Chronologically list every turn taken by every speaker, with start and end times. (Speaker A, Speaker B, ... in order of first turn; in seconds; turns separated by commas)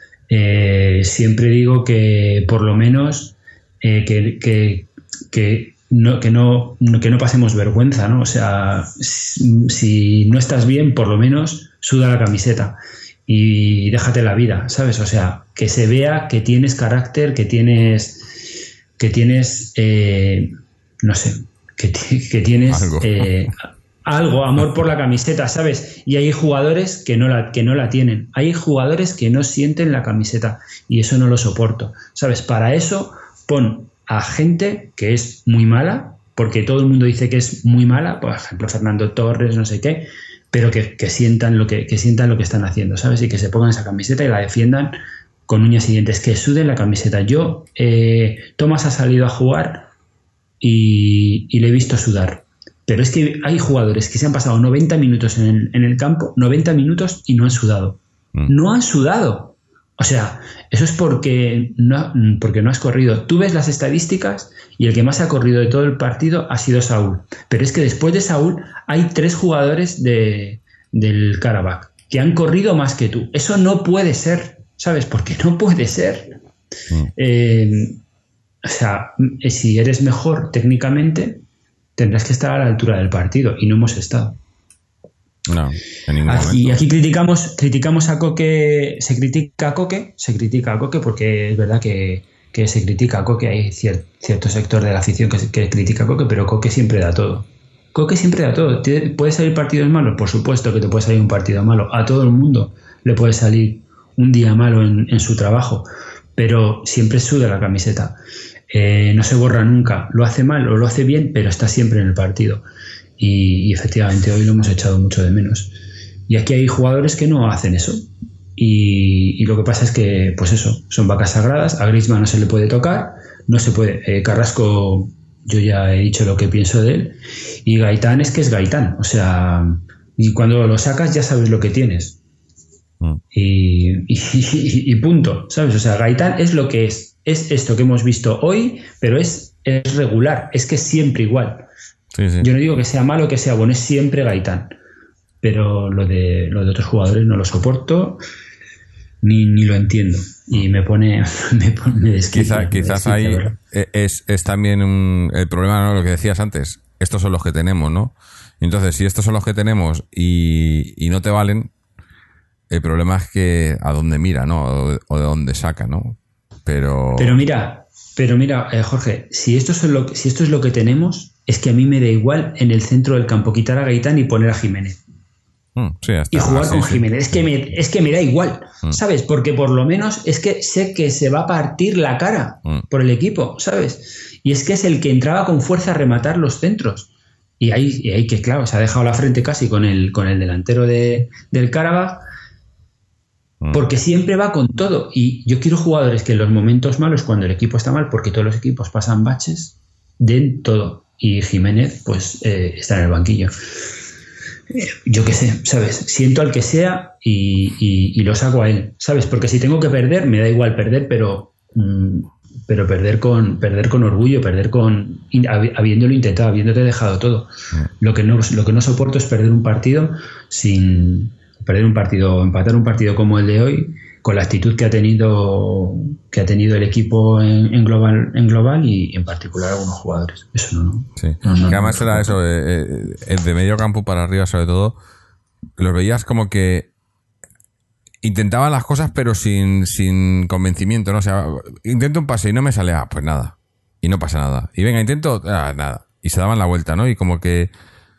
Speaker A: 0.3-23.6, Speaker B: 22.7-23.3, Speaker A: 24.1-49.9, Speaker A: 50.6-76.4, Speaker A: 77.2-78.0, Speaker A: 78.6-81.4, Speaker A: 82.0-84.4, Speaker B: 85.5-86.8, Speaker A: 86.3-108.2, Speaker A: 108.7-112.6, Speaker A: 113.2-115.8, Speaker A: 116.3-132.2, Speaker A: 133.3-141.7, Speaker B: 142.1-142.5, Speaker A: 142.4-144.7, Speaker A: 145.4-148.2, Speaker A: 149.2-153.6, Speaker B: 152.3-161.7, Speaker B: 162.7-167.4, Speaker A: 167.2-175.0, Speaker B: 175.8-177.1, Speaker A: 176.3-192.2, Speaker A: 193.7-203.6, Speaker A: 204.7-232.3, Speaker B: 231.2-235.0, Speaker B: 235.8-236.9, Speaker B: 238.2-247.7